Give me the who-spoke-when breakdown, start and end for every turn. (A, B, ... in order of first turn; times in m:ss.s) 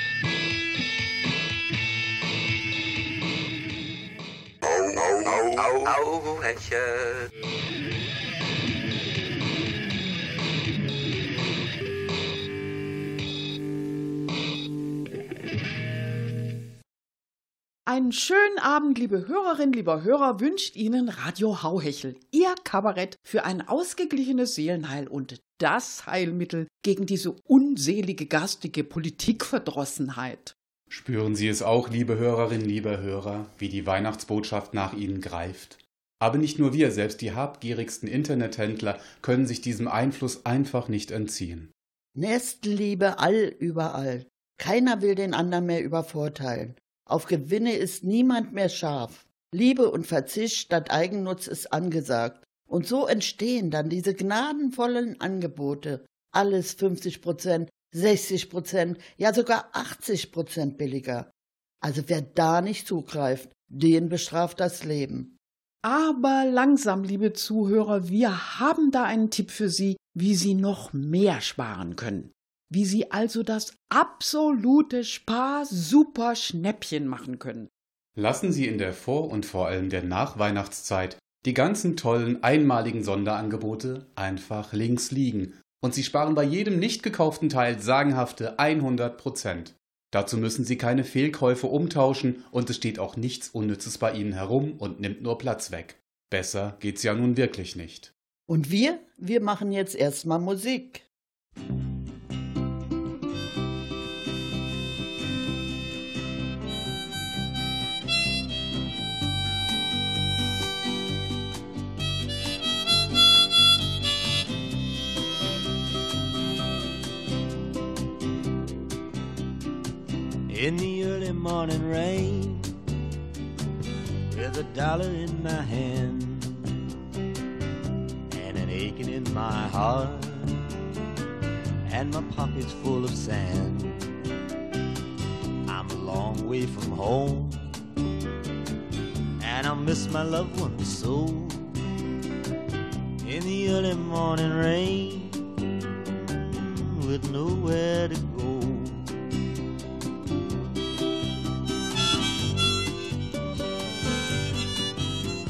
0:04.7-0:07.2 A
0:17.8-0:30.5 B
0:30.9-0:41.7 C
0:42.2-1:01.3 D
1:01.8-1:05.3 D
1:05.8-1:17.7 B
1:18.2-1:38.1 C
1:38.5-1:41.0 D
2:00.5-2:02.7 E
2:04.3-2:06.8 E
2:08.3-2:10.7 E
2:11.9-2:14.1 E
2:15.7-2:17.7 E
2:19.4-2:21.7 E
2:23.2-2:25.4 E
2:26.0-2:29.1 E